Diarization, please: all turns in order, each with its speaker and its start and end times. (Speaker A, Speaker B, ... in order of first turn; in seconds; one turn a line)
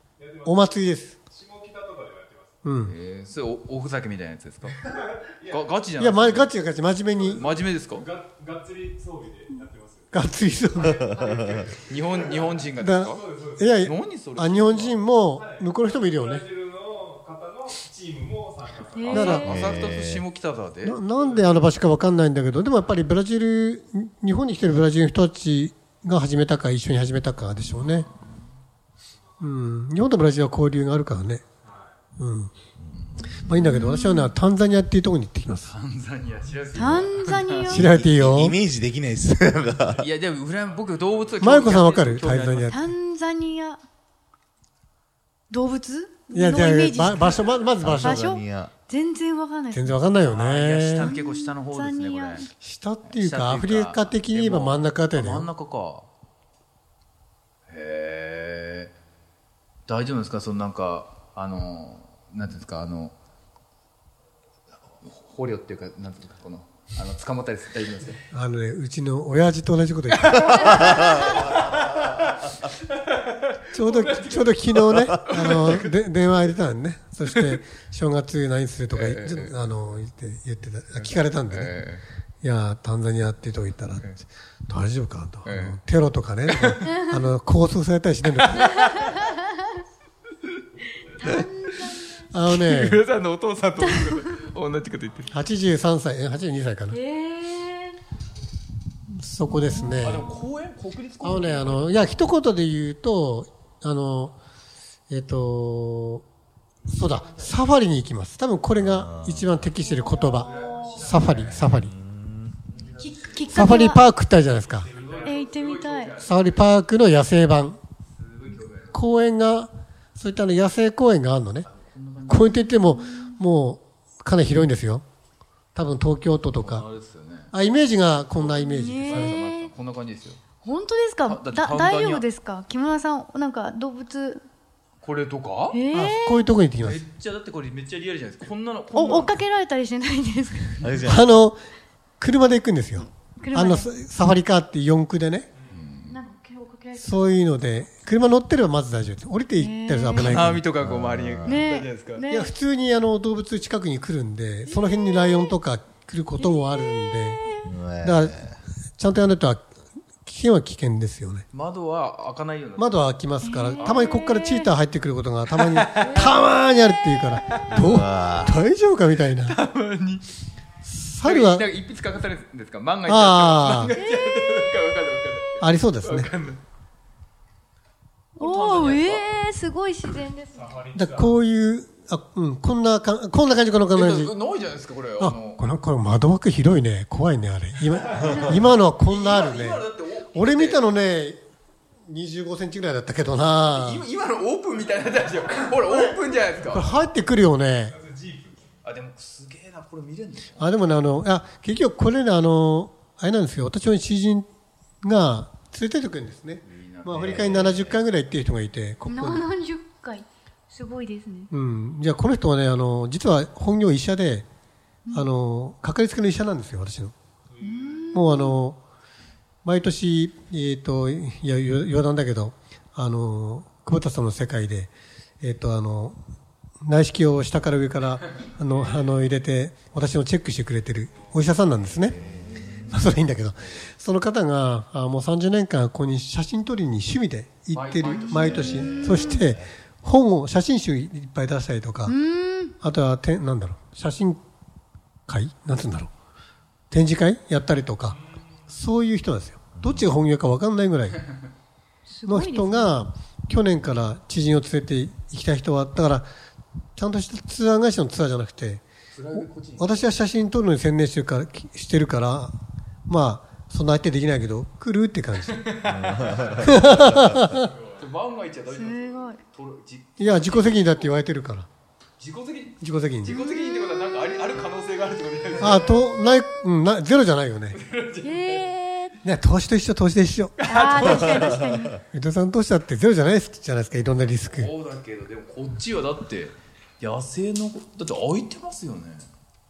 Speaker A: 0.2-2.5
Speaker B: 0.4-1.1
Speaker B: 2.6-2.9
Speaker C: 2.8-4.8
Speaker A: 5.0-5.7
Speaker C: 5.5-6.5
Speaker B: 6.0-7.4
Speaker A: 7.2-10.1
Speaker C: 7.4-8.1
Speaker B: 10.1-11.2
Speaker A: 10.8-13.7
Speaker D: 11.3-11.6
Speaker C: 11.9-13.2
Speaker B: 12.8-16.4
Speaker C: 13.8-15.0
Speaker A: 15.3-19.6
Speaker E: 18.9-19.5
Speaker B: 19.1-19.5
Speaker C: 19.1-21.0
Speaker D: 19.4-20.2
Speaker B: 20.8-28.1
Speaker B: 29.4-31.4
Speaker B: 32.2-32.5
Speaker B: 33.4-35.7
Speaker E: 33.5-34.3
Speaker C: 35.6-37.8
Speaker E: 36.7-37.9
Speaker D: 37.7-40.1
Speaker B: 37.7-38.6
Speaker C: 40.0-42.8
Speaker A: 40.6-41.6
Speaker B: 41.4-42.9
Speaker E: 42.6-43.8
Speaker E: 45.5-50.1
Speaker B: 46.3-48.2
Speaker D: 47.8-48.7
Speaker B: 49.7-51.1
Speaker C: 50.2-52.5
Speaker E: 51.0-52.5
Speaker B: 52.6-55.5
Speaker C: 53.0-56.1
Speaker C: 57.7-58.9
Speaker C: 59.9-63.1
Speaker C: 65.0-68.2
Speaker B: 68.3-71.1
Speaker C: 70.3-71.4
Speaker D: 70.9-71.3
Speaker B: 73.7-81.8
Speaker C: 73.8-74.4
Speaker C: 74.9-75.9
Speaker C: 78.9-79.6
Speaker C: 81.0-82.0
Speaker B: 82.4-84.1
Speaker B: 84.7-88.7
Speaker C: 85.4-85.8
Speaker C: 86.5-86.8
Speaker C: 88.4-89.2
Speaker E: 88.5-89.7
Speaker E: 91.0-92.1
Speaker B: 92.3-93.0
Speaker C: 92.5-95.3
Speaker E: 93.8-94.2
Speaker B: 95.3-97.0
Speaker E: 96.9-98.0
Speaker B: 99.1-100.3
Speaker E: 99.5-100.2
Speaker C: 100.0-102.2
Speaker B: 101.2-104.3
Speaker B: 105.1-106.2
Speaker B: 106.9-111.9
Speaker D: 108.8-109.6
Speaker E: 109.8-111.0
Speaker C: 110.4-111.5
Speaker A: 110.5-111.3
Speaker D: 111.3-112.8
Speaker C: 112.7-113.9
Speaker E: 112.9-114.0
Speaker B: 113.5-114.9
Speaker A: 114.7-115.5
Speaker C: 114.8-116.6
Speaker E: 115.2-116.2
Speaker B: 116.2-117.8
Speaker C: 118.1-119.0
Speaker B: 118.9-121.7
Speaker C: 121.7-122.5
Speaker B: 122.3-125.0
Speaker E: 122.5-123.4
Speaker B: 125.7-126.8
Speaker C: 126.6-127.5
Speaker B: 127.5-129.3
Speaker E: 128.3-129.7
Speaker C: 129.1-130.4
Speaker E: 130.6-134.4
Speaker C: 131.2-132.2
Speaker C: 135.0-135.8
Speaker E: 135.7-136.5
Speaker B: 135.9-137.0
Speaker C: 136.8-139.4
Speaker E: 138.9-140.8
Speaker D: 140.8-141.4
Speaker B: 141.0-141.6
Speaker B: 142.2-145.5
Speaker E: 143.4-143.9
Speaker C: 145.7-146.2
Speaker E: 146.1-147.4
Speaker B: 147.0-150.7
Speaker E: 149.6-150.3
Speaker C: 150.1-152.2
Speaker D: 150.8-151.7
Speaker E: 151.4-152.5
Speaker B: 152.3-158.4
Speaker E: 154.7-155.5
Speaker E: 156.4-157.7
Speaker D: 157.6-158.6
Speaker B: 159.0-159.7
Speaker B: 160.2-161.4
Speaker C: 161.5-163.1
Speaker B: 162.8-169.6
Speaker E: 163.4-164.7
Speaker C: 165.5-166.2
Speaker D: 167.7-168.6
Speaker C: 169.4-170.2
Speaker B: 170.8-171.7
Speaker C: 171.2-176.6
Speaker B: 173.1-173.9
Speaker E: 174.0-174.7
Speaker B: 175.6-176.3
Speaker E: 178.4-180.7
Speaker C: 178.4-179.3
Speaker A: 180.5-181.3
Speaker B: 180.9-184.3
Speaker C: 183.9-185.6
Speaker B: 185.2-191.4
Speaker C: 189.0-190.8
Speaker B: 192.1-194.0
Speaker C: 193.7-196.9
Speaker B: 196.7-198.0
Speaker A: 197.9-198.8
Speaker C: 198.8-200.6
Speaker B: 200.6-204.4
Speaker B: 205.0-209.4
Speaker C: 206.6-207.7
Speaker D: 207.1-208.0
Speaker E: 209.0-211.5
Speaker B: 211.5-214.4
Speaker B: 215.1-217.1
Speaker A: 217.6-218.1
Speaker E: 217.6-218.6
Speaker B: 218.1-218.8
Speaker B: 219.6-226.2
Speaker B: 226.8-232.2
Speaker D: 232.1-233.0
Speaker C: 232.3-232.7
Speaker B: 232.9-242.1
Speaker C: 237.7-238.9
Speaker D: 238.3-239.6
Speaker E: 238.4-239.3
Speaker E: 242.1-242.7
Speaker B: 242.8-244.4
Speaker B: 245.3-246.1
Speaker B: 246.9-248.2
Speaker B: 248.7-251.2
Speaker D: 249.8-250.1
Speaker E: 252.1-253.0
Speaker B: 252.3-256.3
Speaker B: 256.9-258.8
Speaker C: 259.1-260.1
Speaker B: 259.4-262.6
Speaker B: 263.1-265.6
Speaker C: 265.6-267.4
Speaker D: 265.8-267.3
Speaker B: 266.6-267.7
Speaker C: 267.9-271.1
Speaker E: 268.6-269.4
Speaker B: 270.2-271.7
Speaker C: 272.2-276.0
Speaker B: 272.8-273.4
Speaker E: 273.3-274.2
Speaker B: 275.6-277.8
Speaker C: 277.7-278.7
Speaker E: 278.2-279.2
Speaker B: 279.2-281.2
Speaker C: 280.6-281.8
Speaker E: 280.6-282.0
Speaker B: 282.1-284.7
Speaker C: 284.5-289.3